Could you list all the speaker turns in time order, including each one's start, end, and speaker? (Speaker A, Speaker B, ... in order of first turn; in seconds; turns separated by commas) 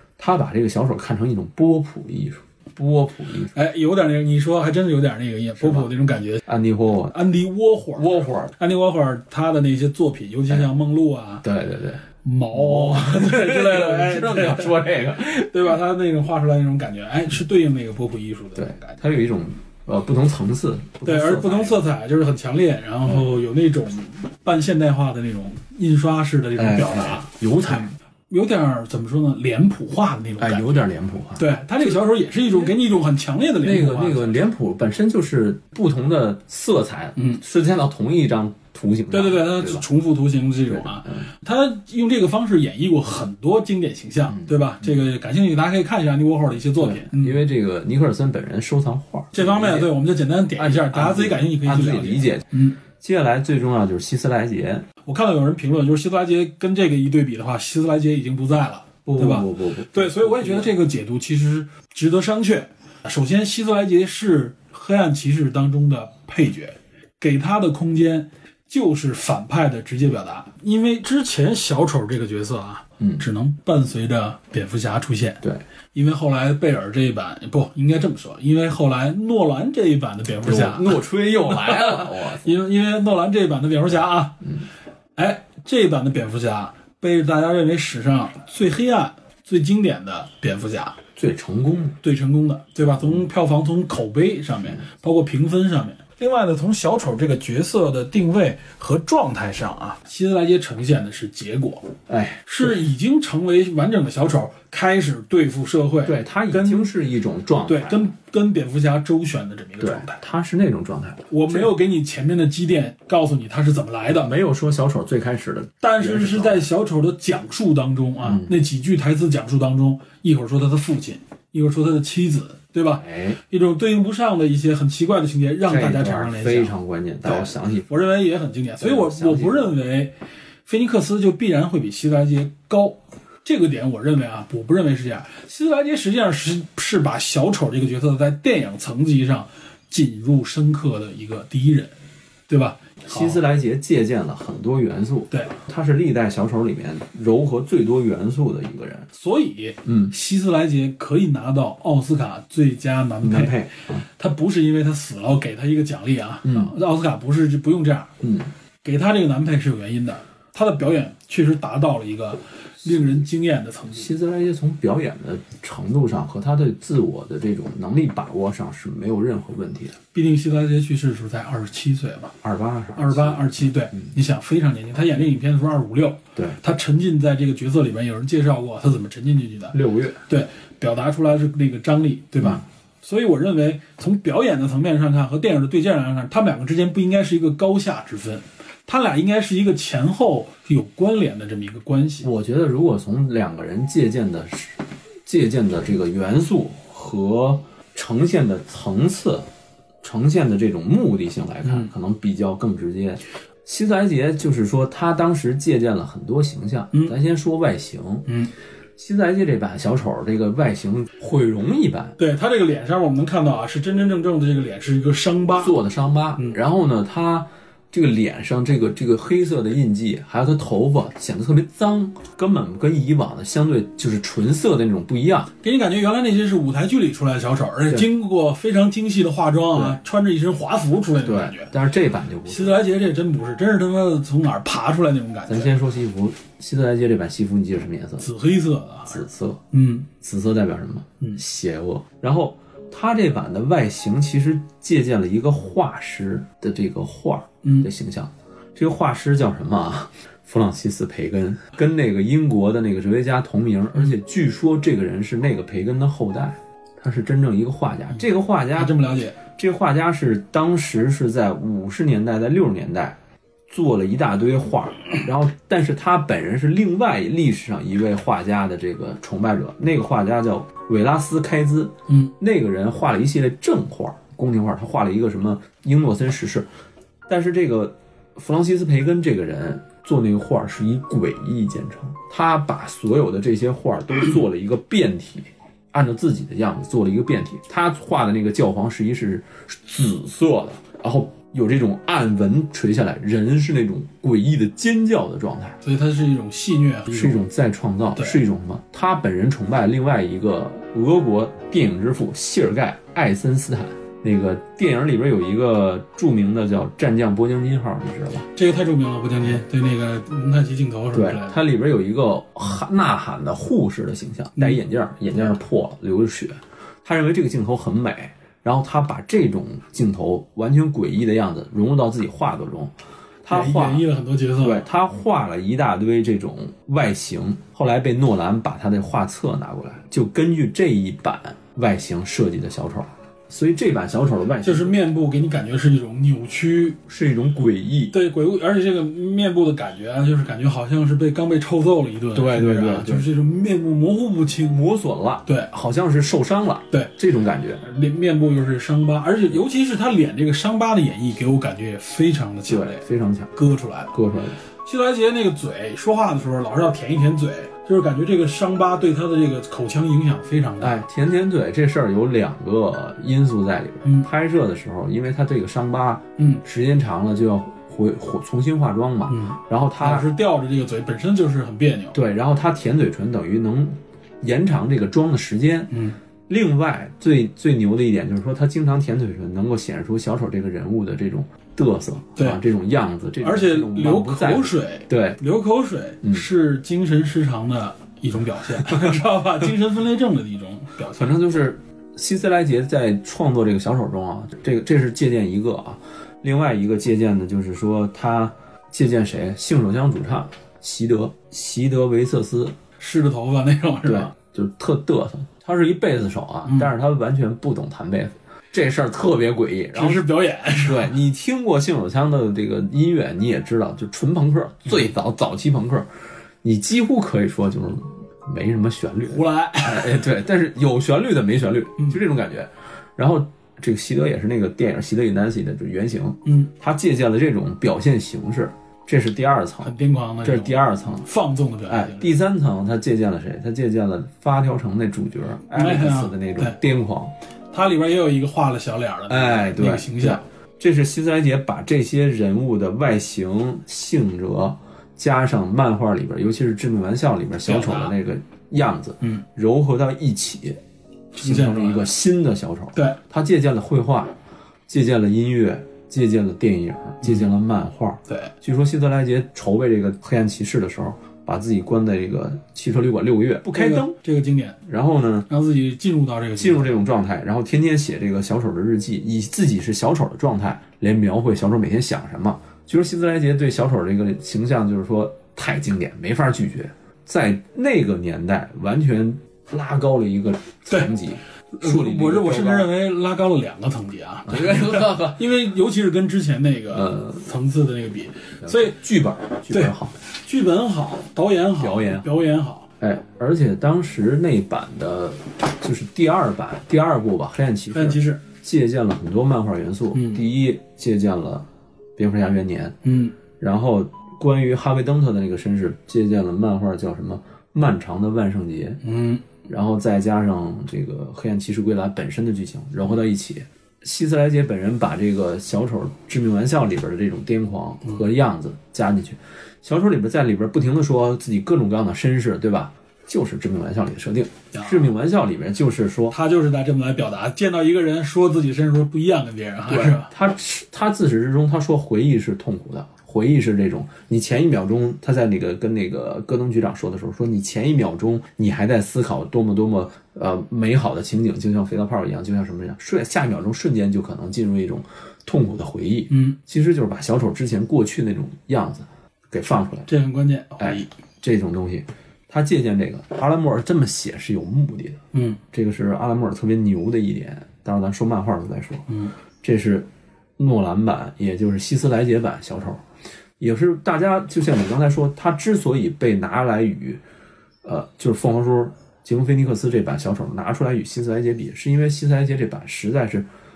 Speaker A: 0.2-3.6, Speaker B: 3.5-6.4, Speaker A: 5.6-5.9, Speaker A: 6.5-7.2, Speaker B: 7.1-11.4, Speaker A: 8.0-8.5, Speaker A: 11.4-15.8, Speaker B: 12.2-14.8, Speaker B: 15.3-19.0, Speaker A: 18.6-21.8, Speaker B: 21.0-30.8, Speaker A: 26.6-27.9, Speaker A: 30.4-32.0, Speaker B: 31.4-34.4, Speaker A: 33.6-39.9, Speaker B: 39.1-47.4, Speaker A: 40.7-41.2, Speaker A: 46.8-49.9, Speaker B: 49.3-52.8, Speaker A: 50.6-54.9, Speaker B: 55.1-75.4, Speaker A: 59.1-60.8, Speaker A: 73.0-73.2, Speaker B: 75.9-84.5, Speaker A: 80.4-82.5, Speaker B: 85.2-91.0, Speaker A: 91.2-92.0, Speaker B: 92.0-101.9, Speaker A: 102.1-102.8, Speaker B: 102.5-106.9, Speaker A: 106.0-108.1, Speaker B: 107.7-110.2, Speaker A: 109.8-111.7, Speaker B: 111.3-114.3, Speaker A: 114.1-116.7, Speaker B: 115.8-130.1, Speaker A: 118.2-118.5, Speaker A: 123.0-123.4, Speaker A: 125.7-127.9, Speaker A: 128.8-129.8, Speaker B: 130.7-141.9, Speaker B: 142.5-143.4, Speaker A: 143.0-149.1, Speaker B: 149.1-158.1, Speaker A: 149.8-150.1, Speaker A: 153.2-154.0, Speaker A: 156.4-156.7, Speaker A: 158.2-158.5, Speaker B: 158.8-164.1, Speaker A: 162.8-163.2, Speaker A: 163.9-170.0, Speaker B: 170.1-172.3, Speaker A: 172.4-173.4, Speaker B: 172.9-192.3, Speaker A: 179.7-180.2, Speaker A: 192.2-199.5, Speaker A: 200.0-208.3, Speaker B: 201.6-201.9, Speaker A: 209.0-212.2, Speaker B: 212.2-215.8, Speaker A: 215.6-225.5, Speaker B: 225.6-231.7, Speaker A: 229.7-230.0, Speaker A: 231.2-232.8, Speaker B: 232.5-235.8, Speaker A: 235.5-238.3, Speaker B: 238.2-240.1, Speaker A: 239.1-239.6, Speaker A: 240.1-259.0, Speaker B: 247.6-247.9, Speaker B: 258.8-259.4, Speaker A: 259.5-263.2, Speaker A: 263.7-276.7, Speaker A: 277.3-295.8, Speaker B: 295.8-297.4, Speaker A: 297.1-308.5, Speaker B: 308.5-311.6, Speaker A: 311.1-324.0, Speaker B: 323.5-324.9, Speaker A: 324.6-335.0, Speaker B: 334.6-337.0, Speaker A: 337.1-338.1, Speaker B: 338.1-344.8, Speaker A: 342.3-343.3, Speaker A: 344.7-347.8, Speaker B: 347.8-354.1, Speaker A: 352.7-353.5, Speaker A: 354.1-354.6, Speaker B: 354.8-361.0, Speaker A: 360.8-370.3, Speaker B: 366.4-366.6, Speaker B: 369.3-372.2, Speaker A: 372.1-375.9, Speaker B: 375.9-376.2, Speaker A: 376.5-385.4, Speaker B: 383.4-391.3, Speaker A: 388.8-389.1, Speaker A: 391.2-402.8, Speaker B: 403.0-404.3, Speaker A: 404.0-416.1, Speaker B: 406.7-406.9, Speaker B: 409.9-411.1, Speaker A: 416.6-431.2, Speaker B: 419.3-420.2, Speaker B: 426.5-426.7, Speaker B: 429.8-432.3, Speaker A: 431.9-437.3, Speaker B: 435.7-436.8, Speaker B: 437.7-440.4, Speaker A: 439.3-450.8, Speaker B: 447.6-448.1, Speaker B: 451.3-452.1, Speaker A: 451.4-454.3, Speaker A: 454.9-464.2, Speaker B: 463.7-464.8, Speaker A: 464.8-465.5, Speaker B: 465.5-467.0, Speaker A: 466.6-482.9, Speaker B: 481.7-489.0, Speaker A: 484.5-485.5, Speaker A: 486.9-487.5, Speaker A: 488.6-490.2, Speaker B: 489.7-492.9, Speaker A: 491.8-492.3, Speaker A: 493.0-503.0, Speaker B: 497.9-498.4, Speaker B: 500.1-500.4, Speaker B: 503.0-503.4, Speaker A: 503.6-509.0, Speaker B: 509.0-509.4, Speaker A: 509.6-526.4, Speaker B: 524.7-525.1, Speaker B: 526.3-530.3, Speaker A: 529.9-550.1, Speaker B: 546.3-546.6, Speaker B: 550.1-551.1, Speaker A: 550.8-555.2, Speaker B: 555.3-555.6, Speaker A: 555.7-559.1, Speaker A: 559.6-563.0, Speaker A: 563.6-567.2, Speaker A: 567.8-573.5